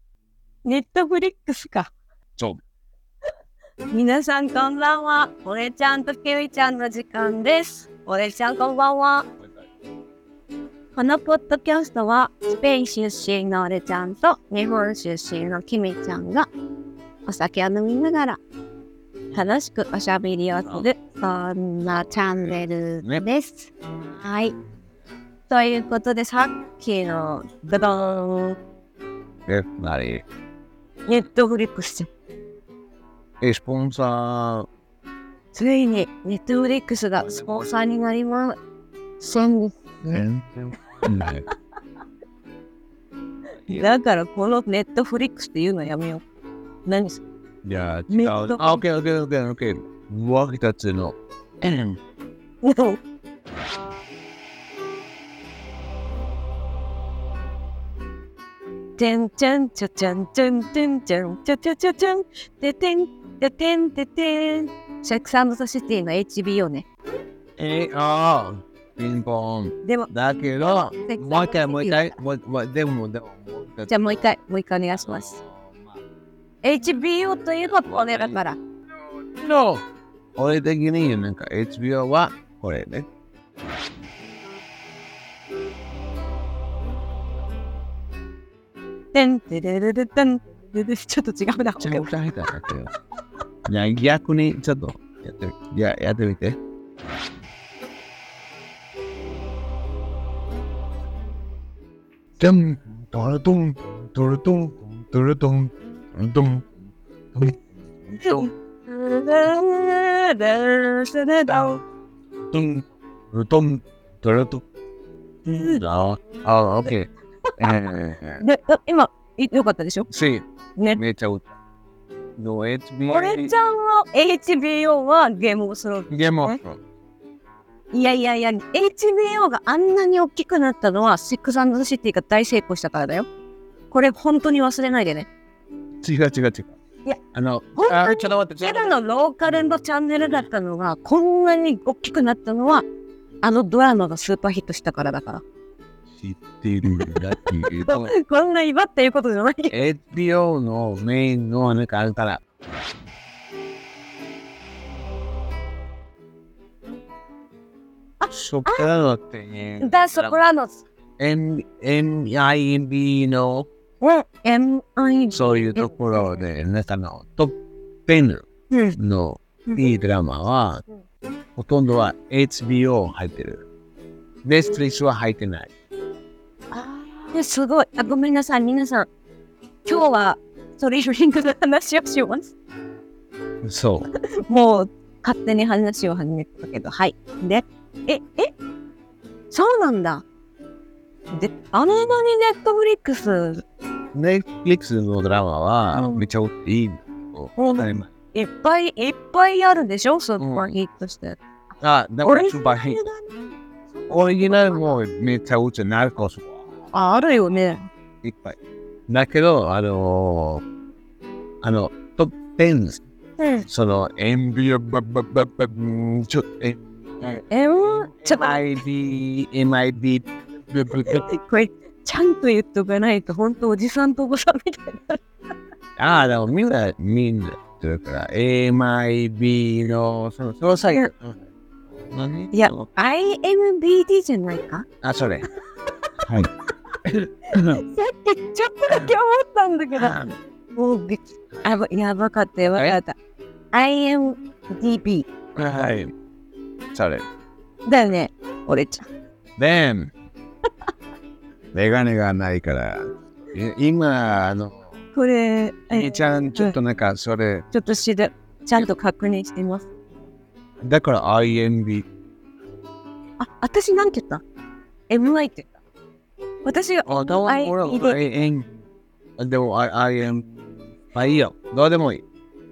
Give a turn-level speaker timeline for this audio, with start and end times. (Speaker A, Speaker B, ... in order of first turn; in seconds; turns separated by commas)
Speaker A: 0.7-1.9, Speaker A: 3.9-9.3, Speaker A: 10.9-16.5, Speaker A: 17.3-18.4, Speaker A: 19.3-24.6, Speaker A: 25.5-28.6, Speaker B: 29.5-30.2, Speaker A: 31.1-32.1, Speaker B: 33.4-34.7, Speaker A: 35.5-38.6, Speaker A: 39.2-39.8, Speaker B: 40.0-41.5, Speaker A: 41.0-41.3, Speaker A: 43.7-46.2, Speaker A: 46.9-47.2, Speaker B: 47.6-52.0, Speaker A: 48.1-48.8, Speaker A: 52.6-53.0, Speaker A: 59.0-66.8, Speaker B: 67.6-74.2, Speaker A: 69.8-70.1, Speaker A: 71.1-72.2, Speaker A: 73.9-75.4, Speaker B: 75.0-75.9, Speaker A: 76.6-78.6, Speaker B: 77.9-78.4, Speaker B: 79.4-79.8, Speaker B: 80.4-83.1, Speaker A: 89.1-92.1, Speaker B: 91.8-92.9, Speaker B: 93.7-96.6, Speaker B: 102.4-106.7, Speaker B: 107.3-108.5, Speaker A: 108.2-111.8, Speaker B: 112.5-114.6, Speaker A: 115.5-115.8, Speaker B: 115.5-118.4, Speaker A: 118.4-120.1, Speaker B: 120.1-120.5, Speaker B: 121.0-121.5, Speaker B: 122.4-123.5, Speaker A: 123.1-126.6, Speaker B: 126.1-126.8, Speaker A: 127.9-133.3, Speaker A: 133.9-135.3, Speaker B: 136.0-136.8, Speaker B: 137.3-138.9, Speaker A: 137.8-142.8, Speaker A: 143.4-145.4, Speaker B: 146.1-148.1, Speaker A: 146.9-149.7, Speaker B: 149.7-152.4, Speaker A: 158.2-158.9, Speaker B: 158.3-160.4, Speaker A: 159.8-160.8, Speaker B: 161.2-163.7, Speaker A: 164.0-166.4, Speaker B: 165.3-167.6, Speaker B: 168.1-170.8, Speaker A: 168.7-169.0, Speaker B: 171.6-173.6, Speaker B: 174.4-175.7, Speaker A: 176.7-179.1, Speaker A: 179.9-182.5, Speaker B: 183.6-184.1, Speaker A: 184.2-188.5, Speaker A: 189.5-190.2, Speaker A: 191.3-193.6, Speaker B: 194.1-198.1, Speaker A: 195.9-196.2, Speaker A: 197.6-201.4, Speaker B: 200.4-200.7, Speaker B: 201.8-203.0, Speaker A: 202.2-203.3, Speaker A: 203.9-205.0, Speaker B: 204.1-206.7, Speaker A: 206.9-207.9, Speaker B: 208.2-208.6, Speaker B: 209.1-210.6, Speaker B: 211.6-213.0, Speaker A: 213.4-213.7, Speaker B: 213.7-221.3, Speaker A: 217.5-218.6, Speaker A: 221.1-225.2, Speaker B: 226.0-231.4, Speaker B: 232.0-232.8, Speaker A: 232.5-234.9, Speaker B: 235.0-235.4, Speaker B: 236.2-236.5, Speaker B: 237.0-237.8, Speaker A: 237.5-240.2, Speaker B: 240.0-240.3, Speaker A: 240.8-243.2, Speaker A: 243.7-245.3, Speaker B: 245.6-246.1, Speaker B: 246.9-247.2, Speaker A: 247.9-249.0, Speaker B: 249.6-250.1, Speaker B: 251.7-254.9, Speaker A: 255.2-256.8, Speaker B: 255.9-257.7, Speaker A: 257.7-259.9, Speaker B: 260.8-262.1, Speaker A: 263.4-264.4, Speaker A: 265.1-265.7, Speaker A: 266.6-268.2, Speaker B: 267.1-268.7, Speaker B: 269.4-270.5, Speaker B: 271.1-272.2